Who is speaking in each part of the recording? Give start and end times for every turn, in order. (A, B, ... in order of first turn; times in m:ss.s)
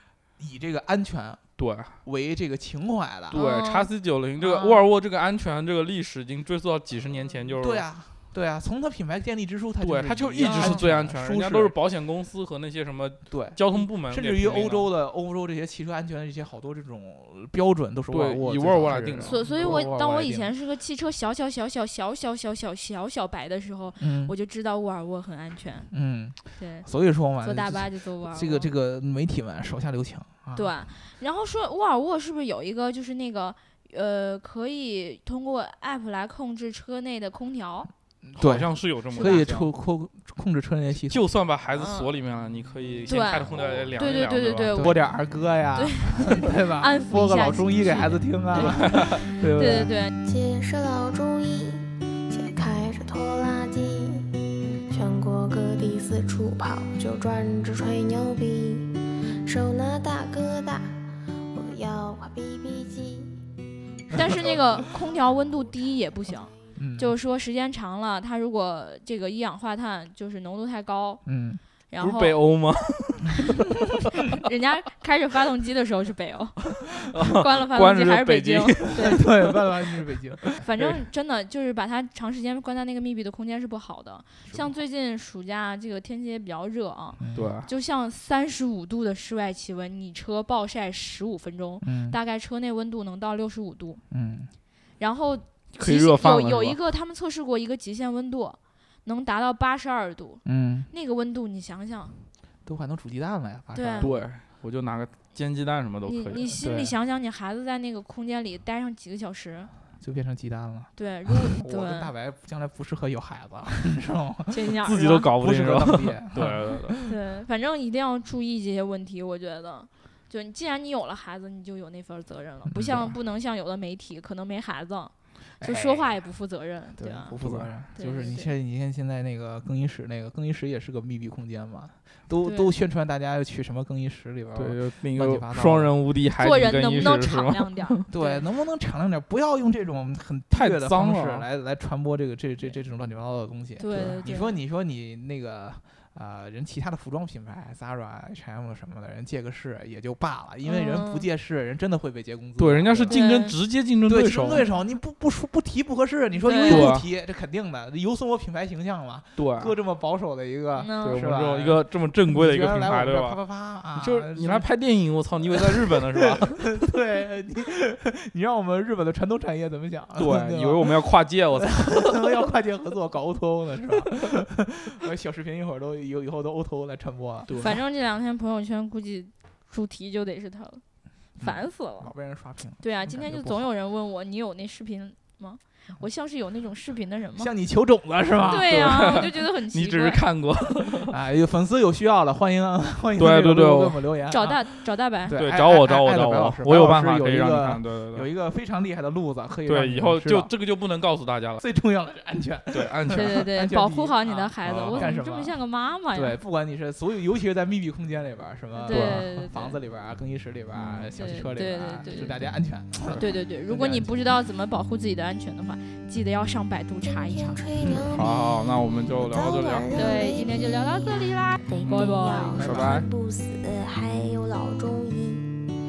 0:00.4-0:01.4 A
0:01.6-0:02.0 B
0:02.0-0:03.4 A
0:03.3-0:07.8 B
0:03.3-0:03.9 C
0:04.4-0:04.9 A
0:07.6-0:11.7 A
0:09.8-0:14.9 B
0:10.4-0:10.9 C
0:13.3-0:20.5 A
0:18.1-0:19.8 B
0:19.2-0:25.9 C
0:24.0-0:24.3 A
0:25.9-0:30.7 A
0:26.5-0:28.7 C
0:30.5-0:37.9 C
0:38.2-0:41.2 A
0:38.4-0:39.7 B
0:39.2-0:39.6 C
0:41.0-0:44.7 B
0:41.8-0:42.1 C
0:43.1-0:45.0 C
0:44.7-0:49.9 A
0:45.8-0:50.1 C
0:50.2-0:54.3 D
0:54.9-1:04.2 D
1:04.1-1:11.2 C
1:04.9-1:05.4 D
1:06.8-1:07.2 A
1:11.2-1:11.6 A
1:11.9-1:12.4 C
1:12.0-1:14.4 B
1:14.2-1:19.3 C
1:16.8-1:19.6 B
1:19.0-1:20.6 A
1:20.6-1:34.0 C
1:24.4-1:24.8 A
1:27.2-1:27.5 A
1:27.3-1:27.7 B
1:31.8-1:32.2 A
1:34.1-1:34.5 A
1:35.0-1:42.1 C
1:35.7-1:36.8 B
1:40.4-1:40.9 A
1:42.6-1:44.3 A
1:43.7-1:44.1 C
1:44.0-1:46.4 B
1:46.0-1:49.7 C
1:46.3-1:47.0 A
1:50.0-1:54.8 A
1:51.0-1:52.1 C
1:54.5-1:55.3 C
1:54.8-1:56.9 B
1:55.3-1:57.1 A
1:57.1-2:07.4 C
2:02.6-2:03.2 A
2:05.6-2:06.2 A
2:07.0-2:16.0 A
2:07.4-2:07.7 B
2:07.9-2:08.5 C
2:12.4-2:12.7 C
2:14.5-2:18.0 B
2:16.3-2:18.4 C
2:18.1-2:33.2 A
2:20.5-2:21.4 B
2:23.8-2:24.6 C
2:30.6-2:31.3 C
2:32.6-2:34.7 B
2:33.1-2:33.6 C
2:34.0-2:44.7 A
2:36.4-2:36.9 C
2:36.6-2:37.1 B
2:39.4-2:39.7 B
2:40.8-2:41.2 C
2:41.0-2:43.4 B
2:44.0-2:46.8 B
2:45.4-2:51.0 A
2:50.2-2:52.5 B
2:51.6-2:57.6 A
2:57.5-2:57.8 B
2:57.5-3:00.8 C
3:01.4-3:03.7 A
3:01.4-3:02.1 C
3:02.8-3:07.5 C
3:07.4-3:09.2 A
3:08.4-3:10.2 C
3:08.4-3:11.1 B
3:11.1-3:20.5 A
3:13.2-3:14.1 B
3:14.3-3:15.4 C
3:15.3-3:18.3 B
3:19.6-3:21.6 B
3:21.6-3:25.6 A
3:22.7-3:23.4 B
3:23.1-3:26.4 C
3:24.6-3:25.1 B
3:26.1-3:34.2 A
3:28.8-3:29.8 C
3:28.9-3:29.2 B
3:30.7-3:31.1 B
3:31.2-3:32.5 C
3:33.1-3:37.7 C
3:37.0-3:38.4 D
3:37.8-3:40.0 B
3:39.2-3:45.7 D
3:39.9-3:43.0 C
3:41.8-3:43.1 B